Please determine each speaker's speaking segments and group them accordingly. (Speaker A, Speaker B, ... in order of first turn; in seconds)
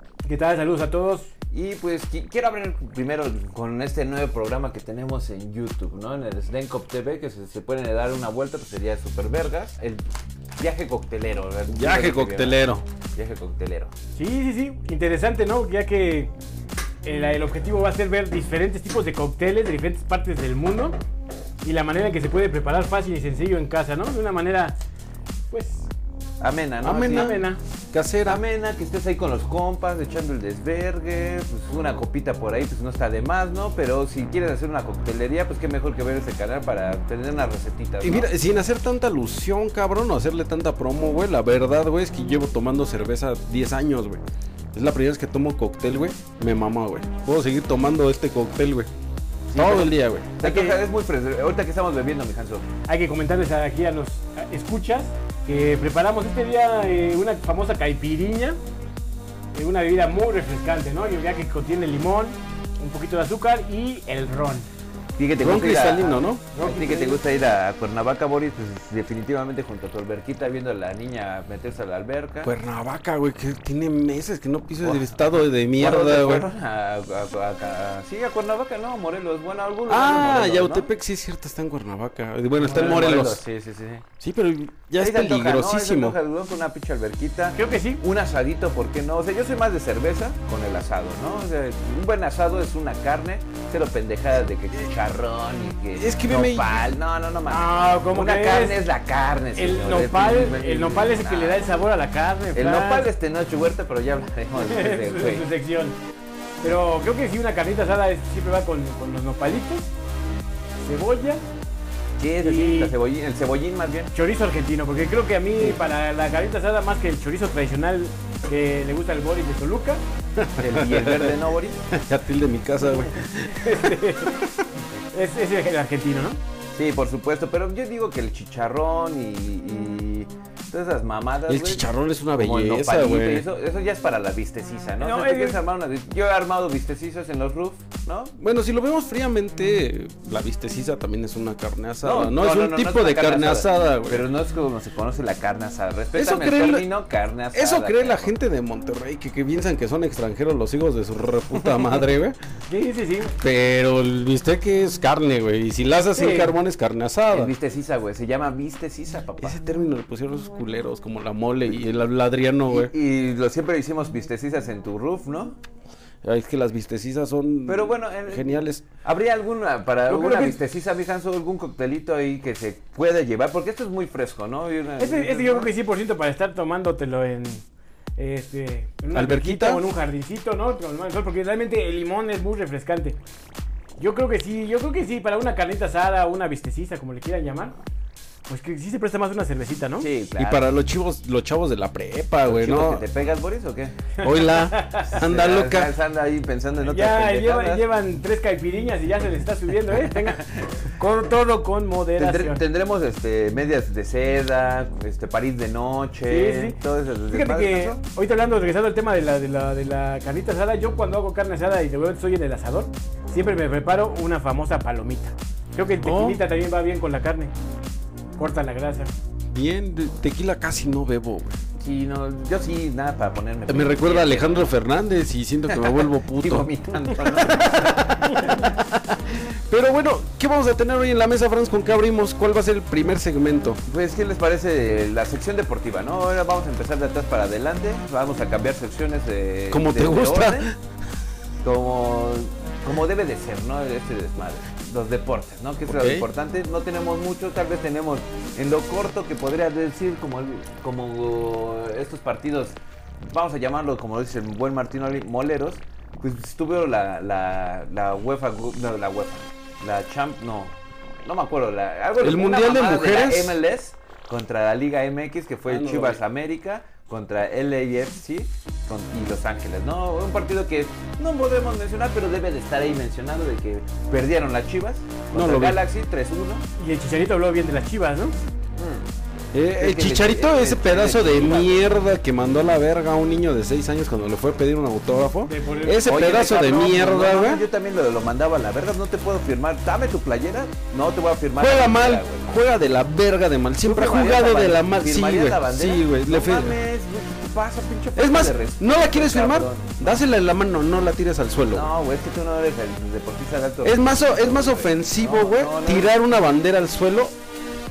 Speaker A: 0.2-1.3, 14.2-16.3, 17.0-20.9, 21.6-24.7, 25.5-25.9, 27.0-27.6, 50.4-50.8, 52.9-58.6, 59.5-64.7, 66.5-67.2, 87.5-88.0, 97.5-98.8, 99.5-103.1, 104.5-106.0, 106.6-109.9, 110.8-111.4, 112.4-112.9, 114.1-120.0, 123.5-124.4, 125.1-126.4, 135.0-135.6, 152.7-153.3, 156.1-156.5, 170.1-170.6, 175.0-177.6, 178.2-183.2, 184.0-187.7, 188.5-190.1, 194.2-195.1, 196.8-202.6, 206.3-206.8, 207.3-217.5, 218.4-219.1, 276.8-278.4, 285.4-286.1
Speaker B: 1.5-10.0, 10.6-12.6, 13.1-13.9, 26.4-27.4, 28.2-38.3, 49.5-52.6, 65.2-72.5, 74.8-80.9, 82.6-84.0, 85.0-101.7, 102.5-105.5, 112.2-114.1, 120.6-121.8, 126.8-138.3, 142.0-148.3, 157.3-159.6, 162.7-165.6, 167.7-168.4, 169.0-175.7, 190.0-190.7, 192.4-193.9, 195.1-197.8, 202.2-208.0, 221.8-224.7, 225.7-228.7, 233.9-240.7, 241.6-252.8, 253.3-276.6, 278.8-279.1, 279.8-281.8, 286.0-292.4, 293.8-300.2, 301.7-306.1
Speaker C: 11.7-12.8, 26.8-27.4, 27.9-28.4, 38.0-44.2, 44.7-48.9, 49.5-50.4, 65.4-66.5, 72.4-76.5, 79.9-83.4, 84.2-86.2, 96.0-96.8, 120.4-121.4, 121.9-124.5, 131.5-133.4, 138.4-144.2, 146.2-146.9, 147.5-152.4, 153.4-157.5, 159.4-162.9, 166.2-168.8, 179.1-179.8, 190.4-193.1, 194.2-195.9, 216.0-216.4, 219.5-221.6, 223.7-233.8, 239.7-240.8, 245.8-246.2, 262.2-263.6, 265.7-266.2, 275.3-275.8, 279.5-287.6, 291.6-296.8, 298.1-301.9, 303.8-307.3